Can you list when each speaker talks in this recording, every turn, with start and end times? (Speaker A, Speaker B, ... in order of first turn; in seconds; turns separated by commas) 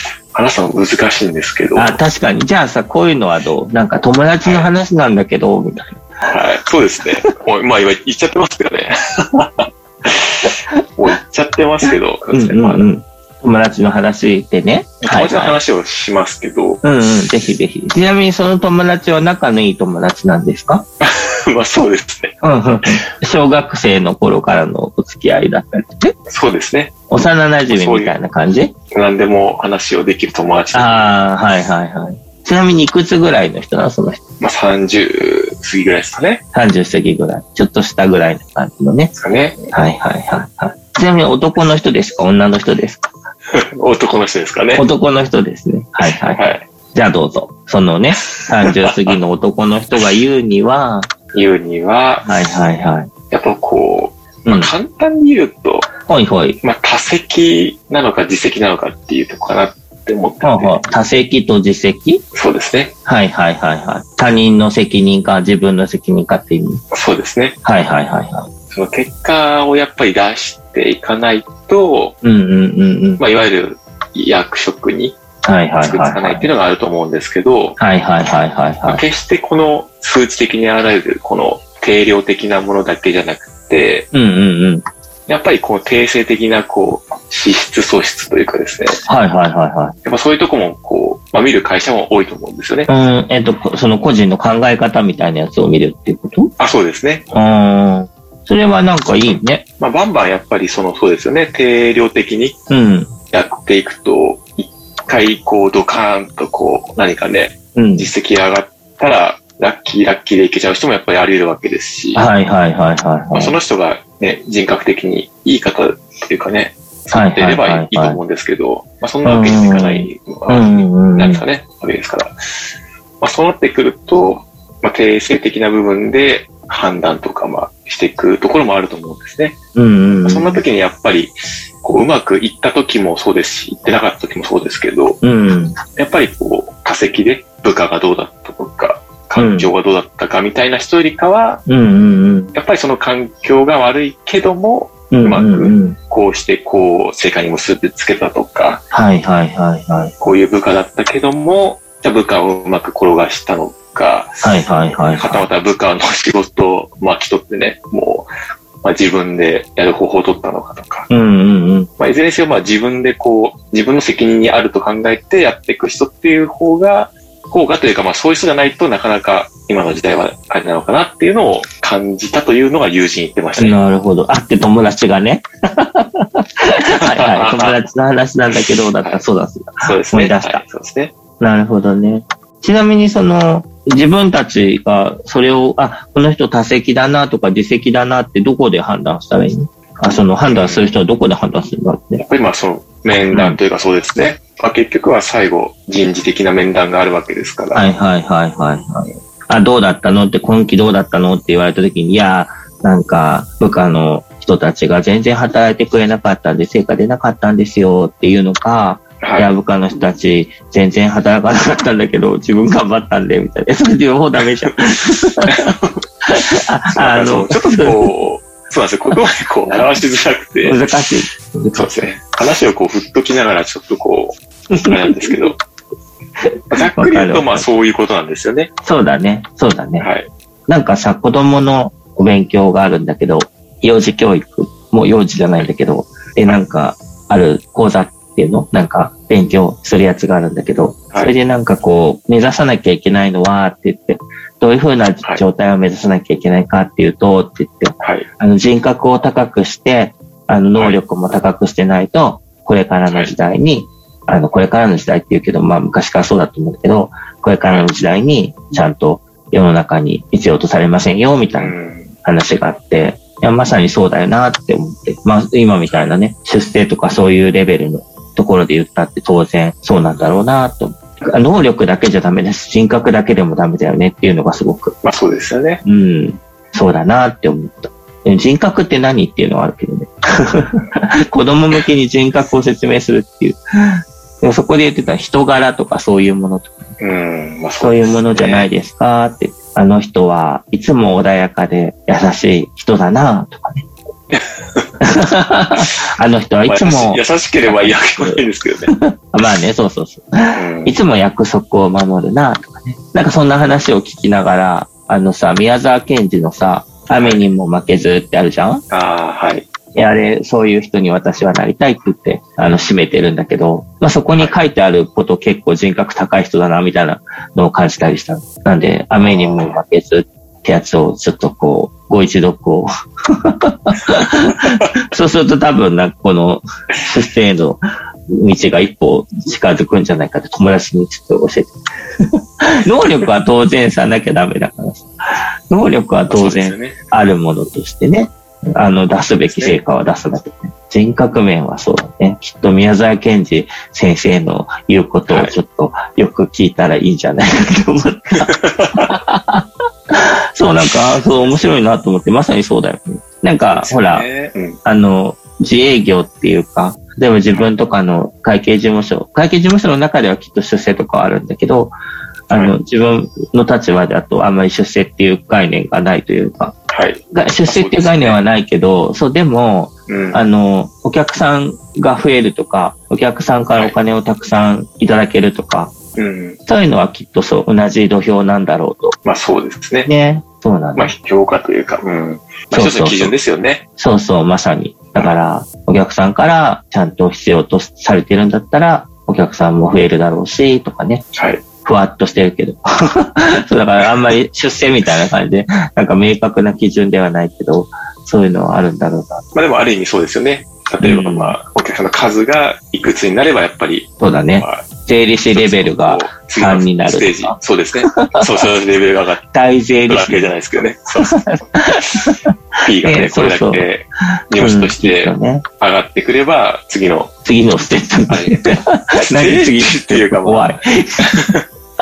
Speaker A: 0.3-2.0, Speaker B: 1.7-6.3, Speaker A: 4.4-4.7, Speaker A: 6.3-12.9, Speaker B: 11.9-15.6, Speaker A: 15.0-17.3, Speaker B: 16.8-20.8, Speaker A: 21.0-23.0, Speaker B: 22.4-26.1, Speaker A: 26.3-26.9, Speaker B: 27.1-28.7, Speaker A: 27.7-28.2, Speaker A: 28.9-31.2, Speaker B: 30.7-34.2, Speaker A: 34.4-36.4, Speaker B: 36.5-39.1, Speaker A: 39.1-39.7, Speaker B: 39.7-43.1, Speaker A: 43.5-44.9, Speaker B: 44.7-46.4, Speaker A: 46.0-46.6, Speaker B: 46.9-51.1, Speaker A: 48.2-49.2, Speaker A: 51.3-52.6, Speaker B: 52.2-53.1, Speaker A: 53.3-55.9, Speaker B: 54.5-54.7, Speaker B: 56.1-56.6, Speaker A: 56.6-60.8, Speaker B: 60.4-62.2, Speaker A: 62.3-62.9, Speaker B: 63.1-66.8, Speaker A: 66.9-67.6, Speaker B: 67.6-68.5, Speaker A: 68.7-72.2, Speaker B: 72.2-73.2, Speaker A: 73.2-75.2, Speaker B: 75.4-76.5, Speaker A: 75.8-77.8, Speaker B: 77.8-79.0, Speaker A: 78.8-84.1, Speaker B: 84.1-84.8, Speaker A: 85.3-89.0, Speaker B: 89.0-89.9, Speaker A: 90.0-92.9, Speaker B: 92.9-96.5, Speaker A: 96.6-97.3, Speaker B: 97.3-99.6, Speaker A: 99.2-102.6, Speaker B: 102.7-103.1, Speaker A: 103.3-112.3, Speaker B: 107.7-108.1, Speaker B: 112.1-113.6, Speaker A: 113.3-122.7, Speaker B: 117.1-118.2, Speaker B: 119.2-121.4, Speaker A: 123.2-129.6, Speaker B: 129.7-130.6, Speaker A: 130.2-135.2, Speaker B: 135.2-135.8, Speaker A: 135.9-141.6, Speaker B: 139.3-139.7, Speaker B: 141.7-142.5, Speaker A: 142.5-148.8, Speaker B: 145.1-146.0, Speaker B: 148.9-150.1, Speaker A: 150.2-158.3, Speaker B: 154.4-155.5, Speaker A: 158.8-161.1, Speaker B: 161.1-161.9, Speaker A: 162.0-173.8, Speaker B: 173.6-180.6, Speaker A: 176.9-177.8, Speaker A: 178.5-179.2, Speaker A: 179.8-181.1, Speaker B: 181.4-192.2, Speaker A: 190.4-190.9, Speaker A: 192.2-198.0, Speaker B: 193.3-193.6, Speaker B: 197.7-215.7, Speaker A: 209.2-209.5, Speaker A: 214.4-214.7, Speaker A: 215.4-216.0, Speaker B: 216.3-218.1, Speaker A: 216.8-221.2, Speaker B: 219.7-219.9, Speaker B: 220.6-221.9, Speaker A: 221.7-225.6, Speaker B: 224.7-225.5, Speaker B: 226.4-227.7, Speaker A: 226.7-228.7, Speaker B: 228.8-230.1, Speaker A: 230.0-230.3, Speaker B: 230.7-261.7, Speaker A: 248.0-248.3, Speaker A: 250.7-251.0, Speaker A: 253.1-253.3, Speaker A: 257.6-257.9, Speaker A: 261.6-262.1, Speaker B: 262.2-275.0, Speaker A: 265.9-266.2, Speaker A: 275.0-275.8, Speaker B: 275.8-286.9, Speaker A: 287.0-288.7, Speaker B: 287.8-293.9, Speaker A: 294.3-294.9, Speaker B: 295.0-308.8, Speaker A: 295.7-296.0, Speaker A: 296.6-298.9, Speaker A: 300.5-301.0, Speaker A: 307.1-307.5, Speaker A: 308.9-309.7, Speaker B: 309.9-327.8, Speaker A: 312.6-313.0, Speaker A: 314.3-314.6, Speaker A: 319.2-319.8, Speaker A: 324.5-324.9, Speaker B: 328.3-335.1, Speaker B: 335.7-354.3, Speaker A: 336.3-337.0, Speaker A: 339.5-339.8, Speaker A: 345.3-345.6, Speaker A: 348.3-349.1, Speaker A: 350.8-351.7, Speaker A: 353.7-354.8, Speaker B: 354.9-361.9, Speaker A: 357.5-357.7, Speaker B: 362.5-366.7, Speaker A: 362.5-362.8, Speaker A: 366.9-368.4, Speaker B: 367.3-375.9, Speaker A: 370.1-370.4, Speaker A: 376.1-376.6, Speaker B: 376.7-379.1, Speaker A: 379.2-380.1, Speaker B: 380.1-381.1, Speaker A: 380.9-383.8, Speaker B: 382.7-383.3, Speaker B: 384.0-391.2, Speaker A: 385.1-385.4, Speaker A: 391.3-391.6, Speaker B: 391.8-399.4, Speaker A: 399.5-404.9, Speaker B: 401.0-401.6, Speaker B: 404.2-408.6, Speaker A: 405.5-409.5, Speaker B: 409.5-410.5, Speaker A: 410.1-417.3, Speaker B: 411.2-413.9, Speaker B: 414.5-415.6, Speaker B: 417.4-421.5, Speaker A: 418.3-421.6